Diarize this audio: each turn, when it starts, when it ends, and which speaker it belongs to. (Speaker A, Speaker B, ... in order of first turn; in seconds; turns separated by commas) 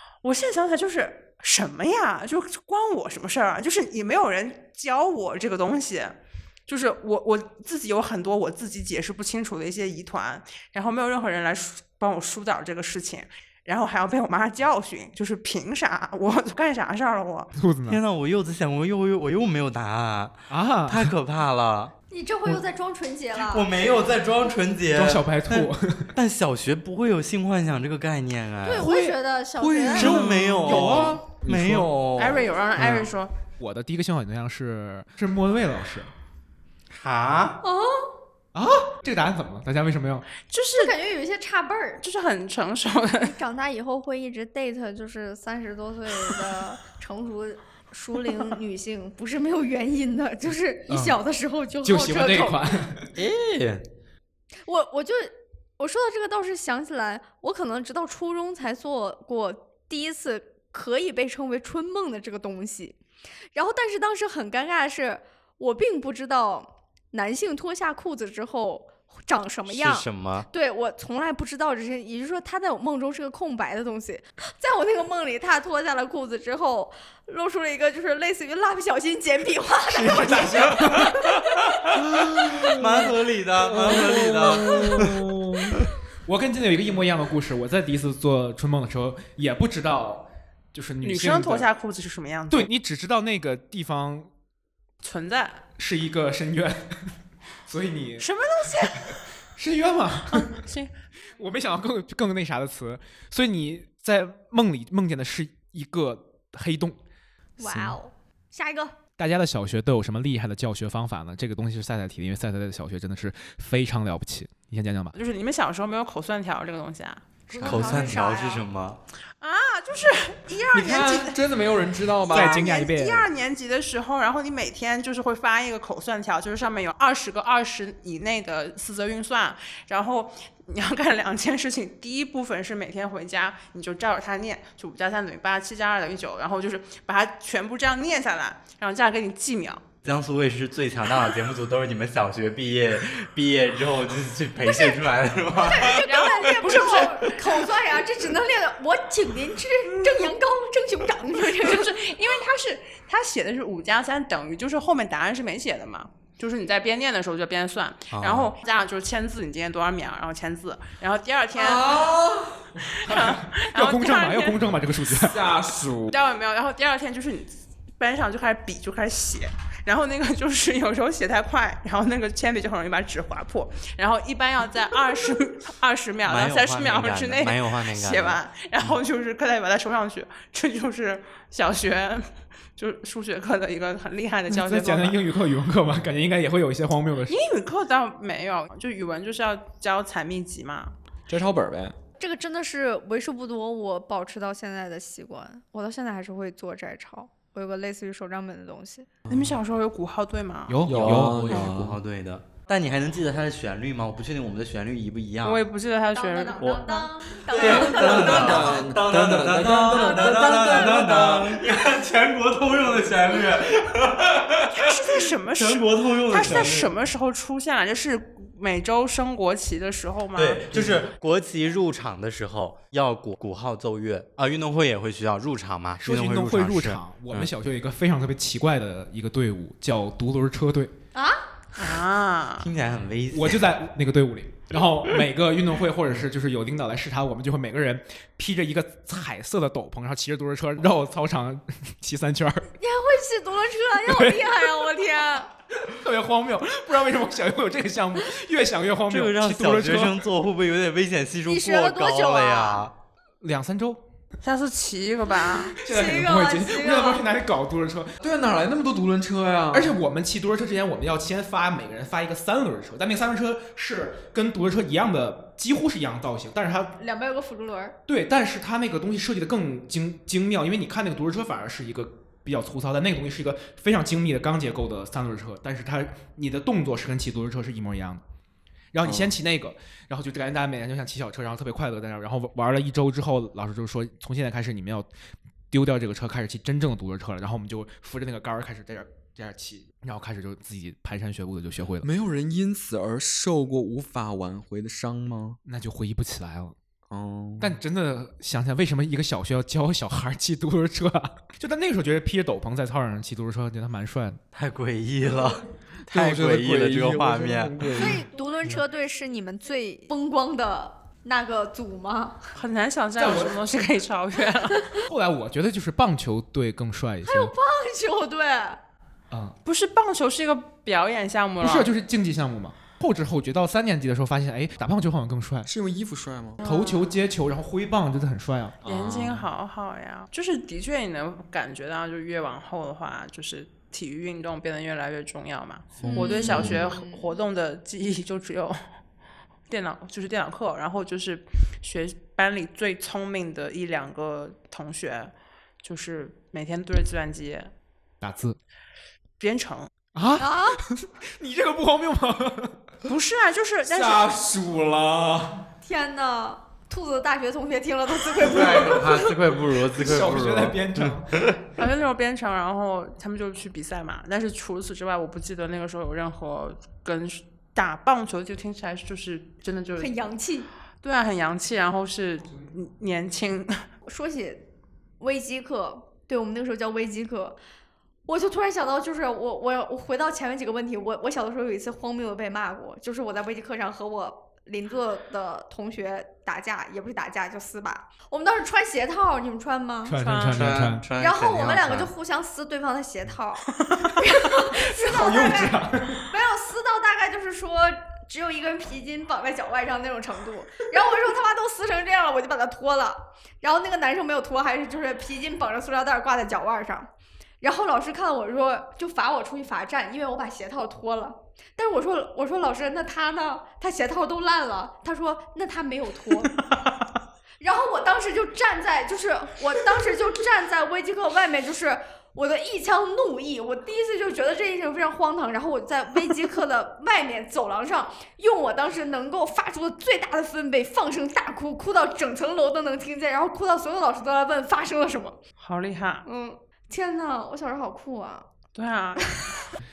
Speaker A: 0.2-17.5, Speaker B: 17.6-18.0, Speaker C: 17.9-21.9, Speaker B: 20.5-21.1, Speaker D: 22.1-23.7, Speaker C: 23.4-28.9, Speaker B: 24.9-26.1, Speaker D: 28.6-30.1, Speaker B: 28.8-29.2, Speaker E: 29.6-31.2, Speaker B: 29.9-31.9, Speaker C: 29.9-33.1, Speaker A: 32.2-33.4, Speaker B: 33.6-36.1, Speaker C: 36.9-37.6, Speaker D: 37.6-38.1, Speaker B: 38.5-40.3, Speaker A: 40.4-41.0, Speaker D: 40.8-42.0, Speaker A: 42.0-43.4, Speaker D: 43.2-52.7, Speaker B: 50.9-51.2, Speaker B: 51.8-53.1, Speaker C: 53.2-53.9, Speaker D: 54.7-63.0, Speaker D: 63.5-81.5, Speaker C: 69.7-70.5, Speaker B: 79.9-81.4, Speaker C: 82.6-85.8, Speaker B: 82.7-83.1, Speaker B: 83.7-91.7, Speaker E: 83.9-85.0, Speaker A: 91.0-92.7, Speaker B: 92.5-94.3, Speaker A: 95.0-95.7, Speaker B: 95.8-97.1, Speaker B: 97.7-98.3, Speaker A: 98.2-99.2, Speaker B: 99.6-100.7, Speaker A: 100.3-100.9, Speaker B: 101.4-107.0, Speaker D: 107.6-109.0, Speaker B: 107.6-108.0, Speaker B: 109.2-115.2, Speaker A: 115.1-118.3, Speaker D: 117.5-118.7, Speaker C: 117.6-119.0, Speaker A: 119.4-121.4, Speaker E: 120.7-122.7, Speaker A: 122.3-139.8, Speaker B: 122.3-123.3, Speaker C: 140.0-147.1, Speaker D: 144.6-145.0, Speaker D: 145.5-152.0, Speaker A: 146.5-147.4, Speaker A: 151.5-162.0, Speaker C: 158.1-158.5, Speaker E: 161.6-162.8, Speaker A: 162.8-164.6, Speaker B: 163.1-165.4, Speaker E: 165.1-166.2, Speaker A: 166.1-185.2, Speaker C: 176.2-178.4, Speaker B: 184.5-187.4, Speaker A: 187.3-191.0, Speaker E: 191.3-191.9, Speaker D: 192.2-199.1, Speaker E: 199.3-199.5, Speaker A: 199.3-200.9, Speaker B: 200.7-201.7, Speaker E: 200.9-202.0, Speaker C: 200.9-205.6, Speaker A: 205.4-206.9, Speaker D: 206.1-208.9, Speaker C: 206.6-216.9, Speaker E: 207.6-211.7, Speaker D: 209.9-211.0, Speaker A: 214.7-221.1, Speaker C: 220.3-227.5, Speaker B: 226.0-230.9, Speaker D: 231.1-231.4, Speaker A: 231.8-232.7, Speaker C: 232.6-233.6, Speaker B: 233.3-242.7, Speaker D: 242.8-245.5, Speaker B: 244.1-244.7, Speaker B: 245.8-250.3, Speaker C: 249.1-252.9, Speaker D: 251.5-252.9, Speaker B: 253.4-254.0, Speaker A: 254.4-255.8, Speaker D: 255.8-257.2, Speaker B: 255.8-258.2, Speaker E: 258.2-260.0, Speaker B: 259.7-266.9, Speaker D: 267.0-268.0, Speaker B: 268.1-278.2, Speaker B: 278.9-285.1, Speaker E: 279.0-279.3, Speaker B: 285.7-292.1, Speaker E: 292.0-295.6, Speaker B: 295.6-296.8, Speaker E: 297.1-297.8, Speaker B: 297.6-304.4, Speaker C: 304.5-308.1, Speaker E: 306.1-308.2, Speaker D: 307.9-312.4, Speaker A: 312.5-315.0, Speaker B: 313.2-313.6, Speaker B: 315.0-317.5, Speaker D: 317.2-318.8, Speaker B: 319.3-319.6, Speaker A: 319.6-321.9, Speaker B: 321.6-325.7, Speaker E: 325.7-326.6, Speaker A: 326.6-327.1, Speaker B: 326.6-328.8, Speaker E: 328.8-329.4, Speaker A: 328.8-338.8, Speaker D: 336.0-337.3, Speaker E: 336.1-336.8, Speaker A: 339.7-347.7, Speaker B: 348.2-348.6, Speaker A: 349.4-349.9, Speaker B: 350.1-352.8, Speaker D: 350.4-350.9, Speaker A: 353.1-354.3, Speaker E: 353.8-355.7, Speaker D: 355.8-359.4, Speaker C: 358.4-361.6, Speaker B: 359.9-361.3, Speaker A: 361.8-370.1, Speaker D: 370.0-370.7, Speaker A: 371.0-373.9, Speaker D: 374.1-374.6, Speaker D: 375.2-377.6, Speaker D: 378.3-390.2, Speaker B: 390.1-391.1, Speaker A: 390.2-390.8, Speaker C: 390.5-392.1, Speaker D: 391.2-407.1, Speaker B: 394.9-396.3, Speaker D: 407.6-416.6, Speaker D: 417.6-435.4, Speaker A: 435.6-436.3, Speaker D: 436.2-438.5, Speaker A: 438.7-439.6